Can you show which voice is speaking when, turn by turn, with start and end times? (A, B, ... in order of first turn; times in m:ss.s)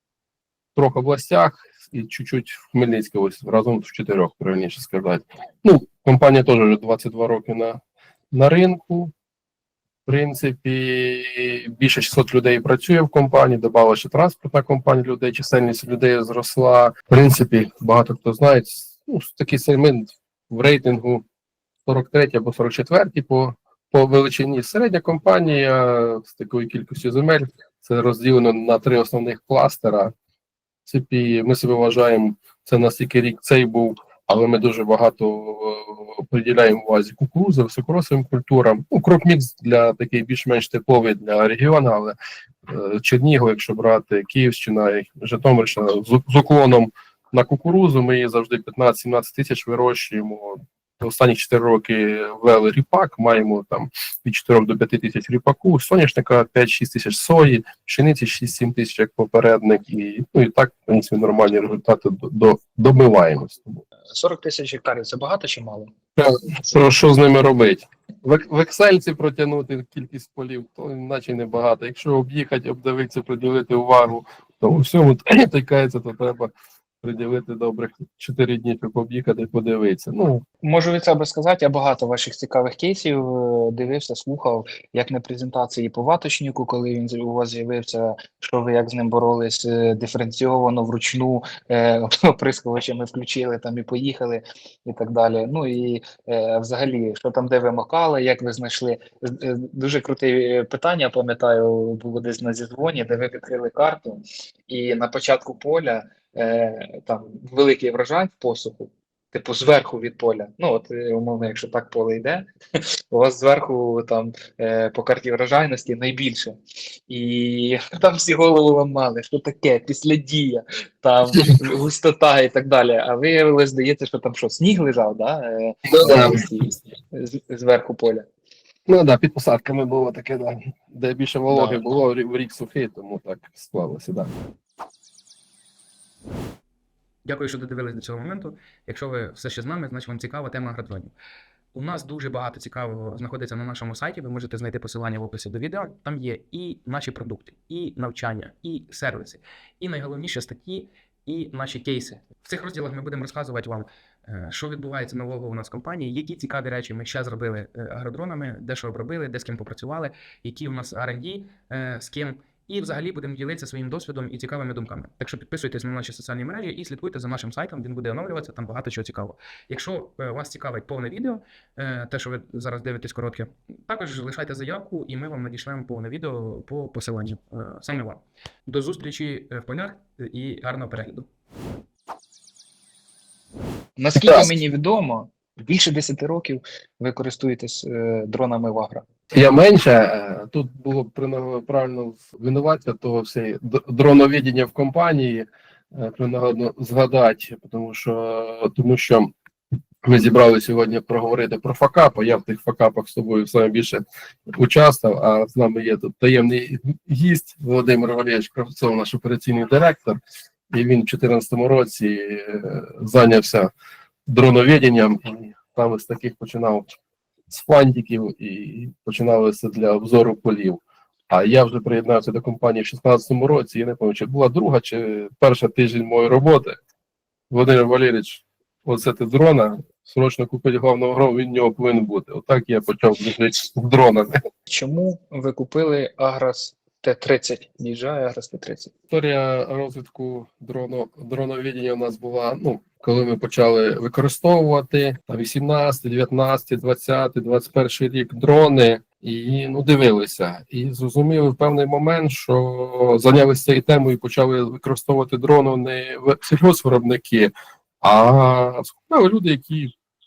0:00.8-0:09.1 A
0:10.0-0:21.2 A
0:21.8-0:30.1 A
0:30.8-0:42.2 A
0:42.7-1:03.8 A
1:04.1-1:05.9 B
1:06.2-1:20.4 A
1:20.6-1:52.5 B
1:53.1-1:56.6 B
1:57.1-2:08.2 B
2:05.9-2:06.4 A
2:08.9-2:14.3 A
2:11.5-2:11.8 B
2:17.2-2:21.1 C
2:21.7-3:01.2 C
3:04.0-3:09.0 B
3:04.1-3:04.5 A
3:09.3-3:19.3 A
3:20.0-3:30.2 A
3:30.7-3:33.7 A
3:34.3-3:37.0 A
3:37.5-3:46.8 A
3:47.5-3:54.3 A
3:54.7-3:58.9 B
3:59.1-4:19.9 A